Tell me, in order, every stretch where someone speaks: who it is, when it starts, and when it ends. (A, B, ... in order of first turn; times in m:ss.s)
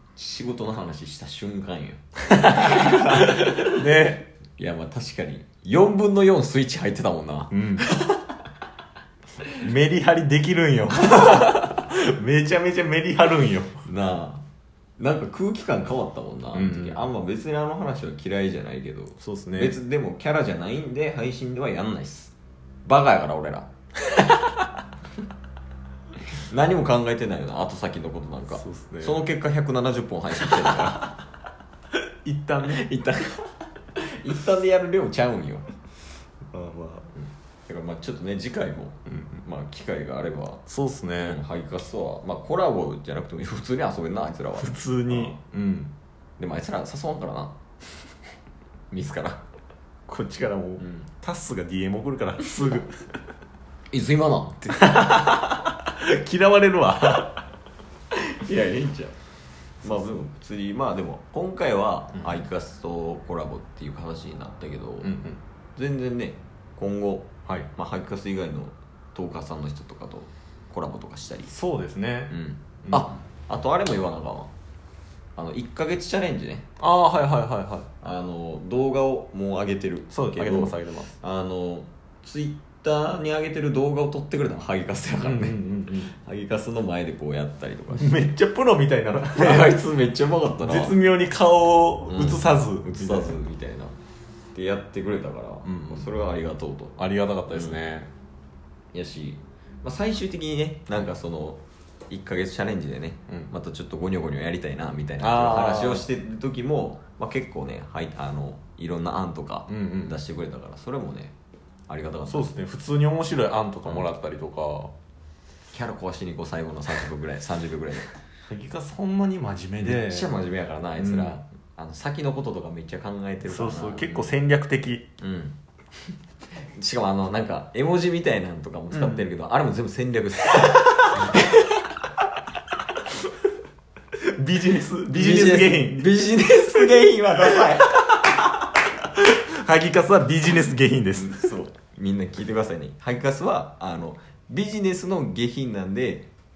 0:00.2-0:03.7 A
0:02.3-0:04.3 B
0:04.6-0:08.2 A
0:07.5-0:07.9 B
0:09.6-0:13.8 B
0:13.8-0:14.4 A
0:15.0-0:22.3 A
0:16.5-0:17.1 B
0:19.2-0:19.8 B
0:22.8-0:23.7 A
0:26.3-0:31.1 A
0:28.5-0:29.2 B
0:32.2-0:32.8 B
0:32.7-0:35.6 A
0:36.5-0:37.1 B
0:37.7-0:40.6 A
0:39.1-0:39.4 B
0:40.7-0:41.4 B
0:41.2-0:45.4 A
0:44.6-0:45.9 B
0:46.4-0:47.5 A
0:48.9-0:49.4 A
0:50.1-0:53.0 B
0:50.8-0:51.0 A
0:53.9-0:55.0 A
0:54.7-0:57.4 B
0:58.1-0:59.1 A
0:59.8-1:05.1 A
0:59.8-1:00.1 B
1:05.0-1:05.4 B
1:05.8-1:11.5 A
1:11.5-1:12.3 B
1:12.3-1:14.5 A
1:12.8-1:13.1 B
1:15.4-1:16.6 A
1:16.8-1:17.9 B
1:18.0-1:28.3 A
1:20.1-1:21.1 B
1:25.2-1:26.1 B
1:27.9-1:29.8 B
1:29.3-1:30.9 A
1:30.6-1:33.4 B
1:32.1-1:34.0 A
1:34.5-1:37.0 A
1:35.6-1:36.1 B
1:37.0-1:38.1 B
1:37.5-1:37.8 A
1:38.9-1:51.3 A
1:45.2-1:46.1 B
1:49.7-1:50.2 B
1:51.9-1:52.5 A
1:52.3-1:54.9 B
1:55.7-1:58.1 A
1:58.5-2:00.3 B
1:59.8-2:04.3 A
2:01.0-2:01.4 B
2:03.4-2:05.1 B
2:05.2-2:05.6 A
2:06.6-2:11.5 A
2:08.9-2:09.2 B
2:10.6-2:11.4 B
2:14.2-2:18.4 B
2:15.1-2:18.0 A
2:19.2-2:21.5 B
2:21.1-2:26.3 A